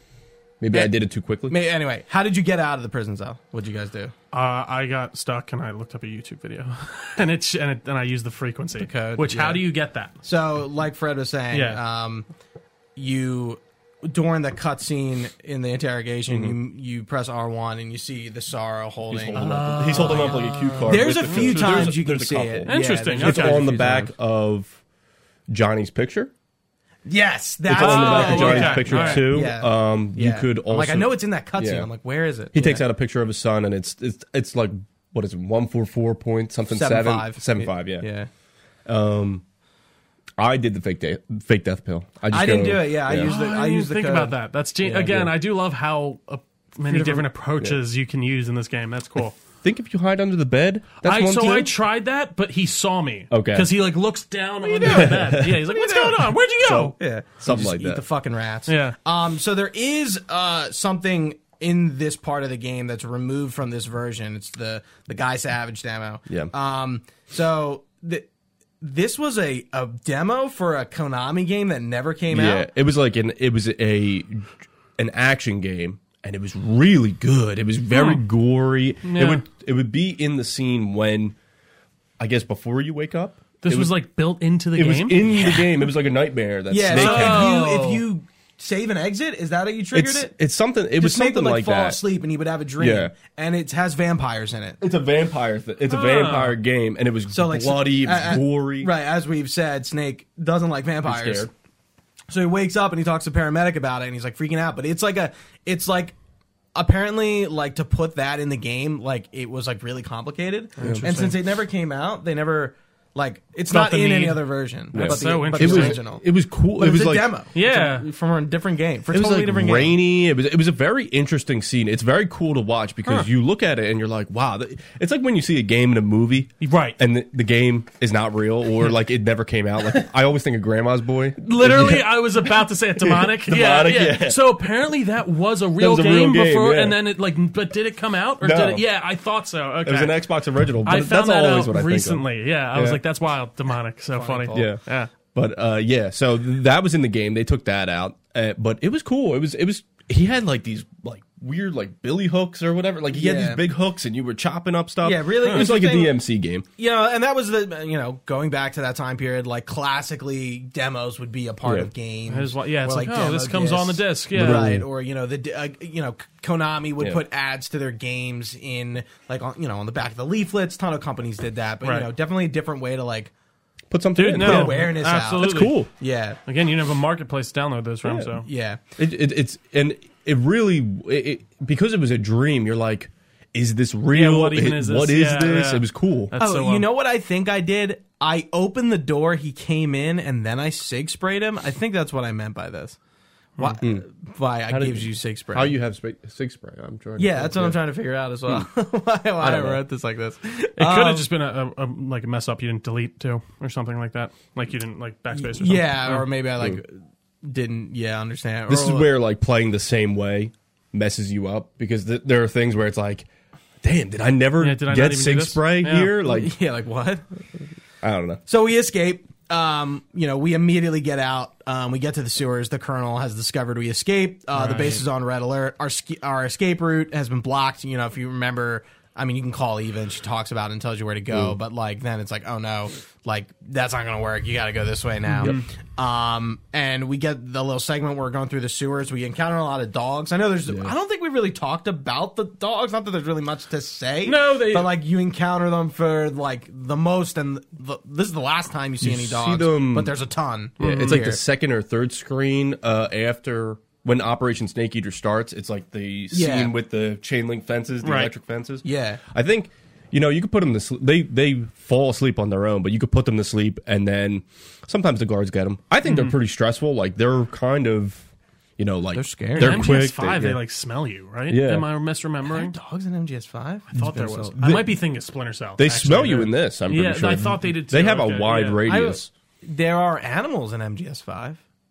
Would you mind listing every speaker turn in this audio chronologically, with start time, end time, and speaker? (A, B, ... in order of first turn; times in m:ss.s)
0:00.6-0:01.6 A
0:01.5-0:04.1 B
0:04.3-0:10.1 C
0:08.8-0:09.7 B
0:10.2-0:12.3 B
0:11.5-0:11.8 C
0:13.0-0:24.1 B
0:16.3-0:16.6 A
0:19.1-0:24.8 A
0:19.3-0:21.8 C
0:22.7-0:23.7 C
0:25.5-0:26.3 A
0:27.1-0:32.8 B
0:27.7-0:31.9 A
0:27.7-0:29.3 C
0:32.5-0:38.1 A
0:36.7-0:38.3 B
0:38.9-0:39.4 A
0:40.4-0:43.3 A
0:42.3-0:45.1 B
0:43.2-0:49.4 C
0:44.9-0:45.3 A
0:46.8-0:47.3 B
0:49.4-0:51.7 A
0:51.0-0:57.0 C
0:53.3-0:53.7 A
0:54.6-0:56.3 B
0:54.8-0:55.7 A
0:56.6-0:58.0 A
0:57.0-1:08.3 B
0:58.7-0:59.0 C
1:08.8-1:12.7 B
1:12.3-1:21.4 A
1:17.9-1:18.2 C
1:19.0-1:19.4 C
1:22.2-1:24.0 A
1:23.6-1:25.2 C
1:24.8-1:27.6 A
1:26.7-1:30.3 B
1:26.9-1:28.0 C
1:29.9-1:32.0 A
1:31.0-1:34.8 B
1:32.8-1:33.1 A
1:34.8-1:38.9 A
1:35.9-1:36.6 C
1:37.3-1:41.5 B
1:41.0-1:41.5 A
1:42.3-1:46.2 B
1:46.8-1:56.2 B
1:50.8-1:51.4 C
1:50.8-1:51.1 A
1:53.7-1:56.0 C
1:54.9-1:57.3 A
1:56.8-1:59.9 B
1:57.6-1:58.0 C
1:59.1-2:14.4 A
2:06.6-2:07.0 C
2:11.4-2:20.2 C
2:15.8-2:17.0 A
2:18.4-2:18.8 A
2:19.8-2:23.0 A
2:20.8-2:25.1 C
2:24.1-2:24.7 B
2:24.5-2:24.8 A
2:25.3-2:36.7 A
2:33.1-2:33.6 B
2:35.0-2:36.2 B
2:36.8-2:53.3 B
2:41.6-2:41.9 A
2:42.3-2:44.8 C
2:44.3-2:44.9 A
2:51.8-2:52.1 C
2:53.9-2:55.9 A
2:54.2-2:55.8 C
2:54.3-2:56.4 B
2:56.5-2:58.5 C
2:58.0-2:58.3 A
2:58.4-2:58.8 B
2:59.0-3:06.3 A
3:04.1-3:06.9 C
3:06.4-3:13.0 B
3:13.6-3:15.8 B
3:14.7-3:17.8 A
3:17.2-3:21.3 B
3:19.4-3:19.8 A
3:20.8-3:26.3 C
3:25.3-3:29.1 B
3:28.7-3:33.3 A
3:33.8-3:36.5 A
3:34.6-3:36.2 C
3:36.2-3:37.2 B
3:38.0-3:38.4 A
3:38.5-4:11.4 B
3:44.6-3:45.0 C
3:55.3-3:55.6 A
3:55.4-3:55.7 C
4:00.7-4:00.9 A
4:04.2-4:04.9 C
4:09.0-4:10.1 A
4:10.8-4:11.2 C
4:10.8-4:30.6 A
4:16.3-4:16.7 B
4:18.0-4:18.3 C
4:18.8-4:19.2 B
4:26.0-4:26.4 C
4:29.1-4:29.9 B
4:29.6-4:32.8 C
4:31.5-4:31.9 A
4:32.5-4:34.6 B
4:33.9-4:38.8 C
4:34.6-4:34.9 A
4:35.8-4:39.3 A
4:38.9-4:41.6 B